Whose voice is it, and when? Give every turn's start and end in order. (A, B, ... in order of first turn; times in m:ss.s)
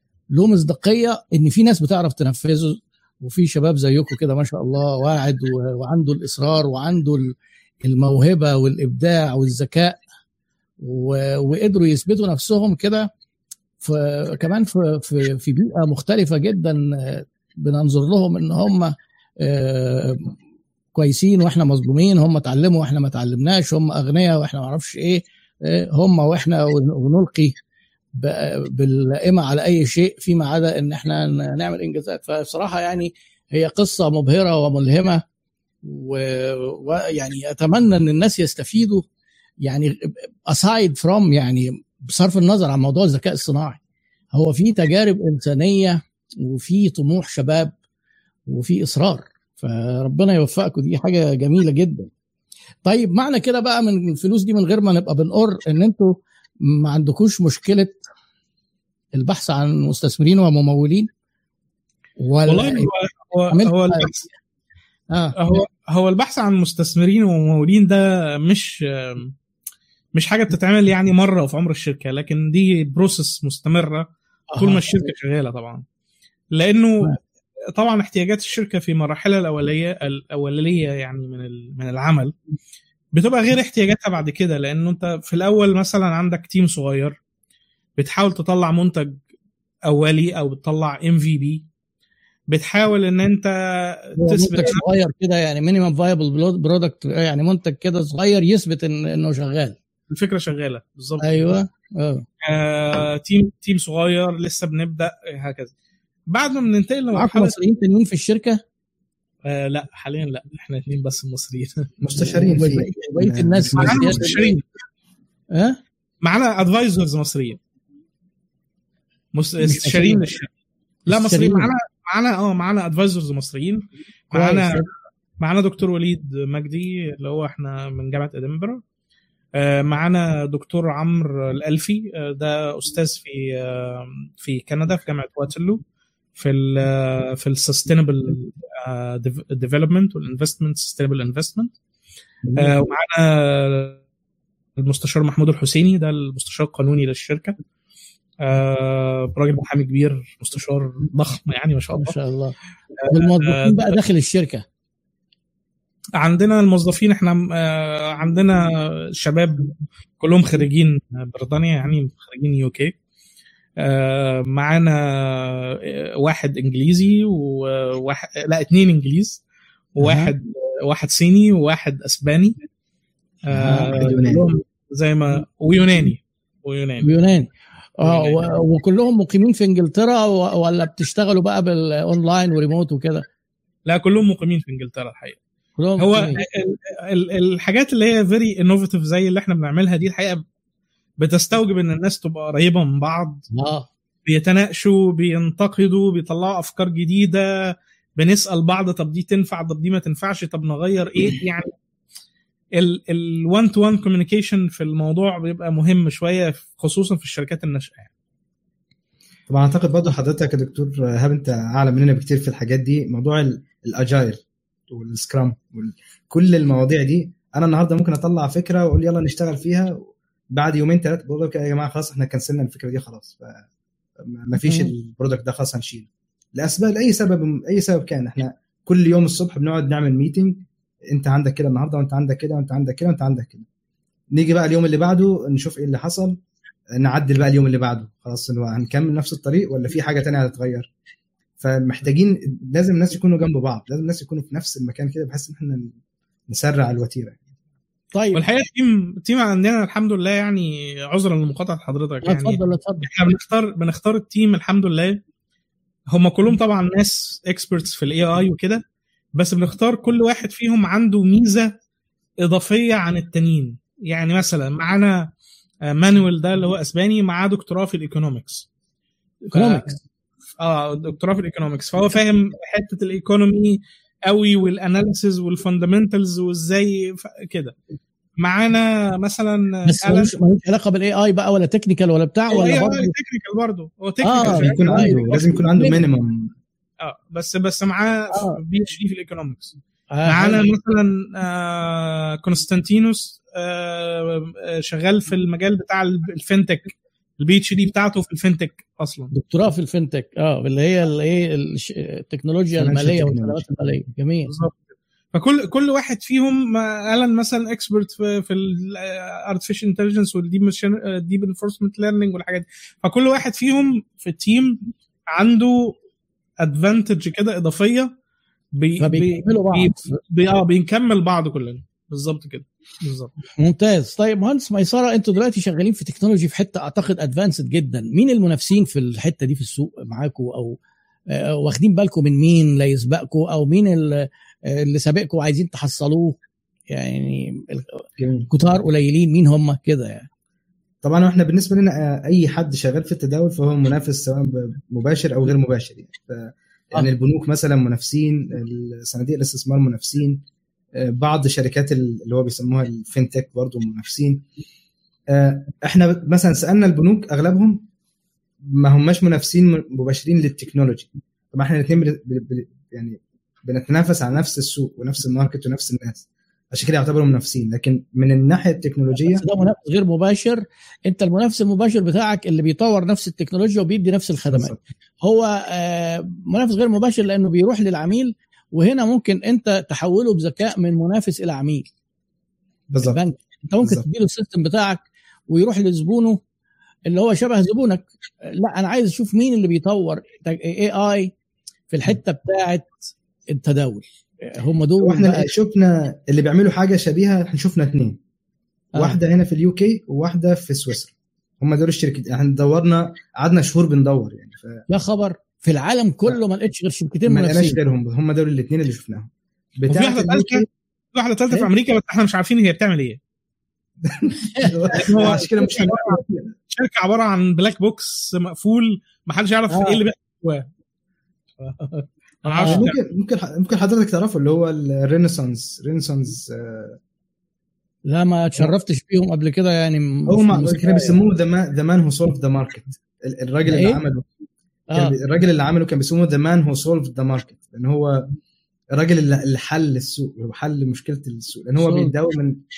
0:00.3-0:10.0 A
0:10.8-0:13.1 A
0:13.8-0:20.4 A
0:21.0-0:27.6 A
0:28.2-0:35.2 A
0:35.8-0:39.1 A
0:39.6-0:43.8 A
0:44.3-0:47.8 A
0:48.5-0:52.1 A
0:52.8-0:56.2 A
0:56.7-0:58.0 A
0:59.1-1:01.1 A
1:02.2-1:02.9 A
1:02.5-1:04.3 B
1:03.5-1:04.1 A
1:05.1-1:05.4 A
1:05.4-1:09.3 B
1:10.2-1:14.1 B
1:14.5-1:14.9 A
1:14.6-1:15.8 B
1:16.5-1:17.2 B
1:17.8-1:22.3 B
1:23.1-1:27.2 B
1:28.0-1:29.2 B
1:29.9-1:31.7 B
1:32.5-1:34.8 B
1:34.2-1:39.8 A
1:40.1-1:41.6 B
1:41.2-1:42.2 A
1:42.4-1:45.7 B
1:46.3-1:47.6 B
1:47.1-1:48.6 A
1:49.4-1:51.9 B
1:52.0-1:54.2 C
1:52.2-1:54.6 A
1:53.8-1:54.6 B
1:55.5-1:55.8 A
1:56.2-1:57.6 B
1:59.3-2:00.5 B
1:59.6-2:00.3 A
2:01.1-2:04.9 B
2:01.1-2:01.7 A
2:04.3-2:04.9 A
2:05.4-2:08.8 B
2:09.6-2:15.8 B
2:16.4-2:21.7 B
2:22.6-2:24.0 B
2:24.8-2:27.6 B
2:28.4-2:32.2 B
2:31.9-2:32.6 A
2:33.0-2:34.0 B
2:33.1-2:34.6 A
2:36.2-2:43.0 B
2:43.8-2:49.4 B
2:50.0-2:52.6 B
2:50.0-2:50.3 A
2:53.5-2:57.1 B
2:53.5-2:54.2 A
2:53.9-2:54.4 C
2:57.0-2:57.5 A
2:58.0-3:03.2 A
2:58.0-2:58.6 B
3:03.9-3:05.4 B
3:05.8-3:06.4 A
3:06.0-3:10.4 B
3:11.2-3:13.5 B
3:13.5-3:13.9 A
3:14.2-3:21.7 B
3:22.8-3:28.1 B
3:29.5-3:43.7 C
3:44.2-3:53.7 C
3:44.6-3:44.9 A
3:54.3-3:56.4 C
3:57.0-4:00.9 C
4:01.6-4:06.0 C
4:06.5-4:07.5 C
4:08.2-4:08.4 A
4:08.4-4:15.2 B
4:12.2-4:13.1 A
4:16.1-4:18.8 B
4:19.4-4:21.7 B
4:22.4-4:25.3 B
4:25.9-4:28.7 B
4:29.4-4:30.0 A
4:29.5-4:29.9 B
4:30.6-4:37.8 B
4:38.4-4:40.4 B
4:39.9-4:43.1 A
4:42.5-4:45.5 B
4:44.2-4:46.0 A
4:44.4-4:46.5 C
4:47.0-4:59.3 B
4:48.3-4:48.6 A
4:50.1-4:50.7 A
4:59.3-5:04.5 A
5:02.8-5:03.7 C
5:04.5-5:04.8 B
5:05.3-5:16.0 B
5:16.6-5:18.1 B
5:18.8-5:23.3 B
5:19.0-5:20.1 A
5:23.6-5:30.8 A
5:31.3-5:36.4 A
5:36.9-5:40.3 A
5:38.2-5:38.5 C
5:41.0-5:50.4 C
5:51.0-5:54.4 C
5:55.3-5:57.8 C
5:58.6-6:09.4 C
6:09.3-6:21.9 A
6:14.5-6:14.8 C
6:22.9-6:23.2 C
6:23.0-6:26.4 A
6:27.1-6:31.3 A
6:31.9-6:33.0 A
6:33.5-6:35.5 A
6:35.0-6:38.2 C
6:39.0-6:44.8 C
6:44.9-6:47.8 A
6:47.3-6:50.7 C
6:49.9-6:53.2 B
6:54.0-6:56.6 C
6:54.6-6:56.2 A
6:55.1-6:55.4 B
6:56.7-7:00.7 B
6:59.7-7:00.0 A
7:01.6-7:03.0 B
7:02.5-7:02.9 A
7:02.6-7:07.0 C
7:08.1-7:11.2 A
7:10.3-7:14.3 C
7:13.7-7:14.0 A
7:15.0-7:18.3 C
7:18.9-7:22.6 C
7:21.8-7:22.2 A